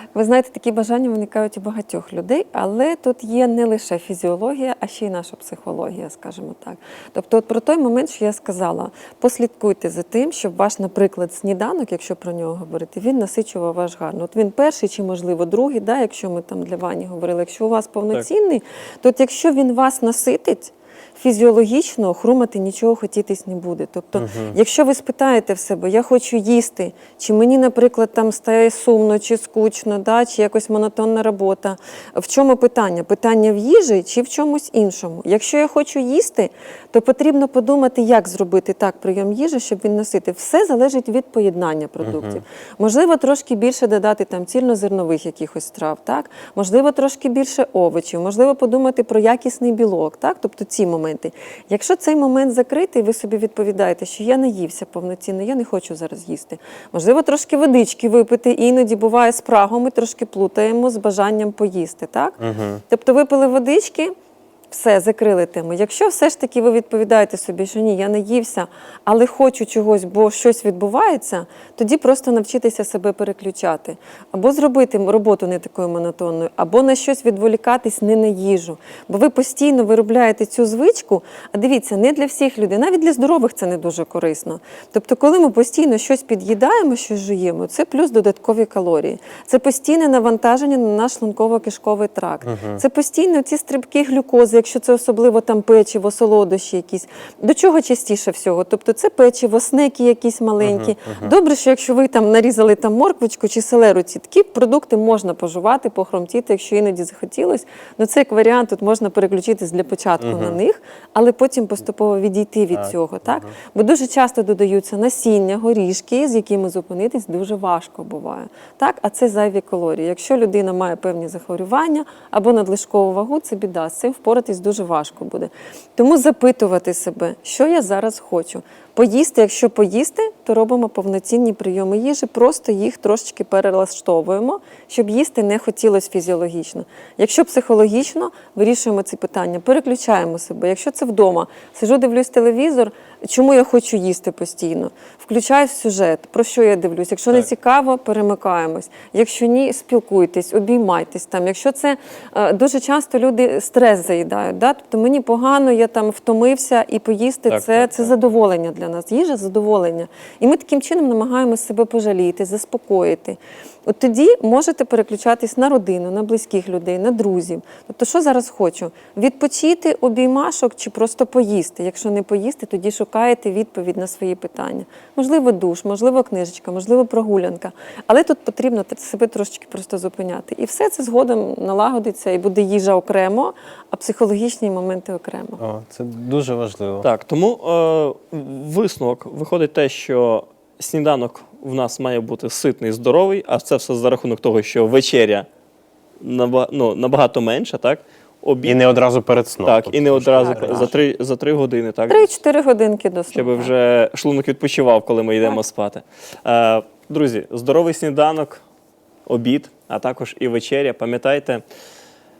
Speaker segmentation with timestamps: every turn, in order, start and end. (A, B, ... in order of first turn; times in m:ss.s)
0:00.1-1:04.1 A
0:24.2-0:24.5 B
0:42.0-0:42.4 B
1:02.4-1:02.8 B
1:04.7-3:05.6 A
1:32.4-1:32.8 B
1:40.6-1:41.3 B
1:50.2-1:50.6 B
1:52.7-1:53.5 B
2:37.5-2:38.1 C
3:05.6-3:07.1 B
3:07.0-3:15.5 C
3:16.2-3:18.8 C
3:18.6-3:20.9 B
3:19.6-3:22.3 C
3:20.4-3:20.9 A
3:22.1-3:23.7 A
3:23.3-3:28.6 C
3:29.2-3:31.6 C